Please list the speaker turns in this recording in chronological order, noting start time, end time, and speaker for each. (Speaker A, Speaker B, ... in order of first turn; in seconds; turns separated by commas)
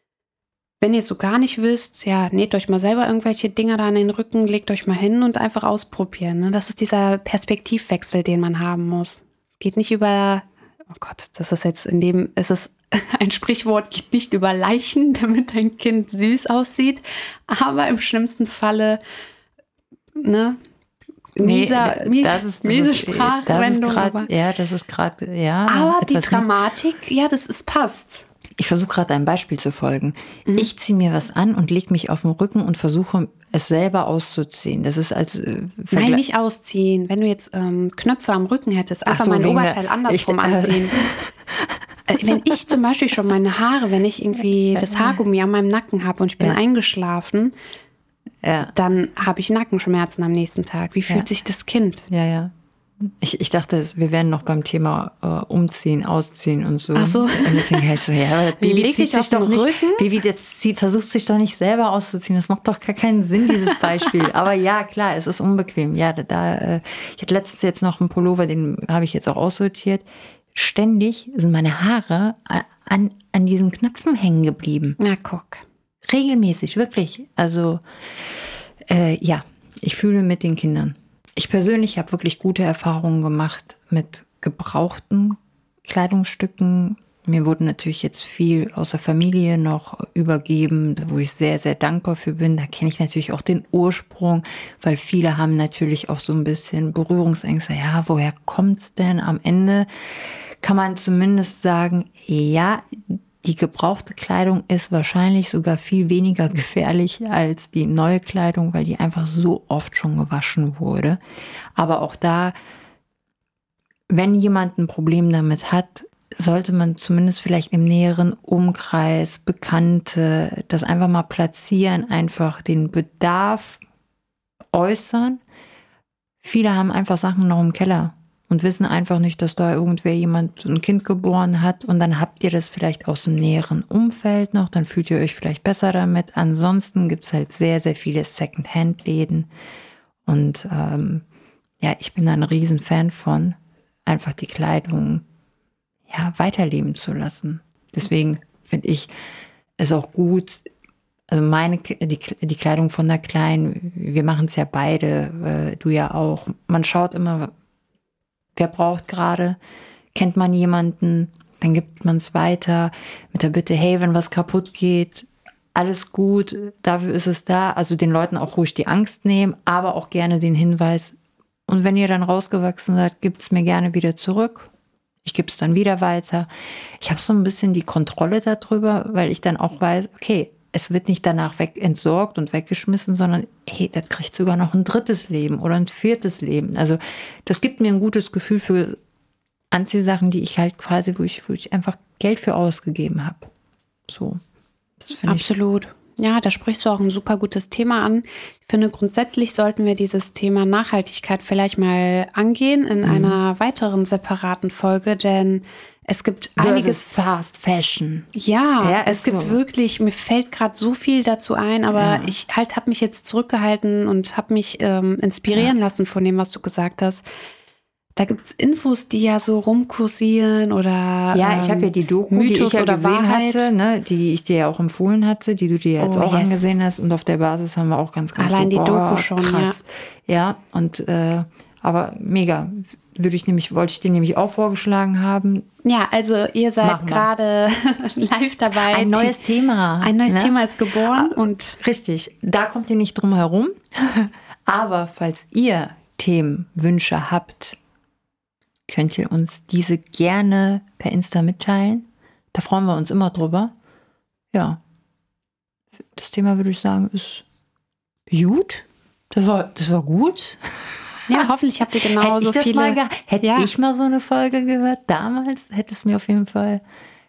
Speaker A: 0.8-19.0, Speaker A: 20.2-20.6, Speaker A: 21.4-24.3, Speaker B: 21.4-26.5, Speaker A: 25.7-28.2, Speaker B: 28.6-36.2, Speaker A: 35.9-41.0, Speaker B: 39.1-42.4, Speaker A: 42.1-47.5, Speaker B: 44.9-45.2, Speaker B: 48.4-48.7, Speaker A: 48.7-52.1, Speaker B: 52.1-75.0, Speaker A: 57.0-58.0, Speaker A: 58.6-60.0, Speaker A: 75.0-75.6, Speaker B: 76.0-111.2, Speaker B: 111.8-112.5, Speaker B: 114.1-123.8, Speaker B: 124.7-125.4, Speaker B: 126.4-139.5, Speaker B: 140.3-141.2, Speaker B: 141.8-145.2, Speaker B: 146.1-149.1, Speaker B: 149.8-150.6, Speaker B: 151.3-157.5, Speaker B: 158.6-159.6, Speaker B: 160.1-171.2, Speaker B: 171.7-174.7, Speaker B: 175.2-176.5, Speaker B: 177.0-189.0, Speaker B: 189.7-193.5, Speaker B: 194.1-194.4, Speaker B: 195.0-195.6, Speaker A: 195.3-207.1, Speaker B: 203.0-203.4, Speaker B: 206.6-208.3, Speaker A: 208.3-217.2, Speaker B: 208.8-209.6, Speaker B: 211.9-212.3, Speaker A: 218.2-223.7, Speaker B: 221.3-235.7, Speaker A: 226.0-226.6, Speaker A: 228.4-229.8, Speaker A: 235.8-239.4, Speaker B: 236.8-237.3, Speaker B: 238.7-240.6, Speaker A: 240.0-241.8, Speaker B: 241.1-247.8, Speaker B: 248.9-253.7, Speaker B: 254.5-254.8, Speaker B: 256.1-257.4, Speaker B: 258.3-260.6, Speaker A: 261.3-263.7, Speaker B: 262.1-266.8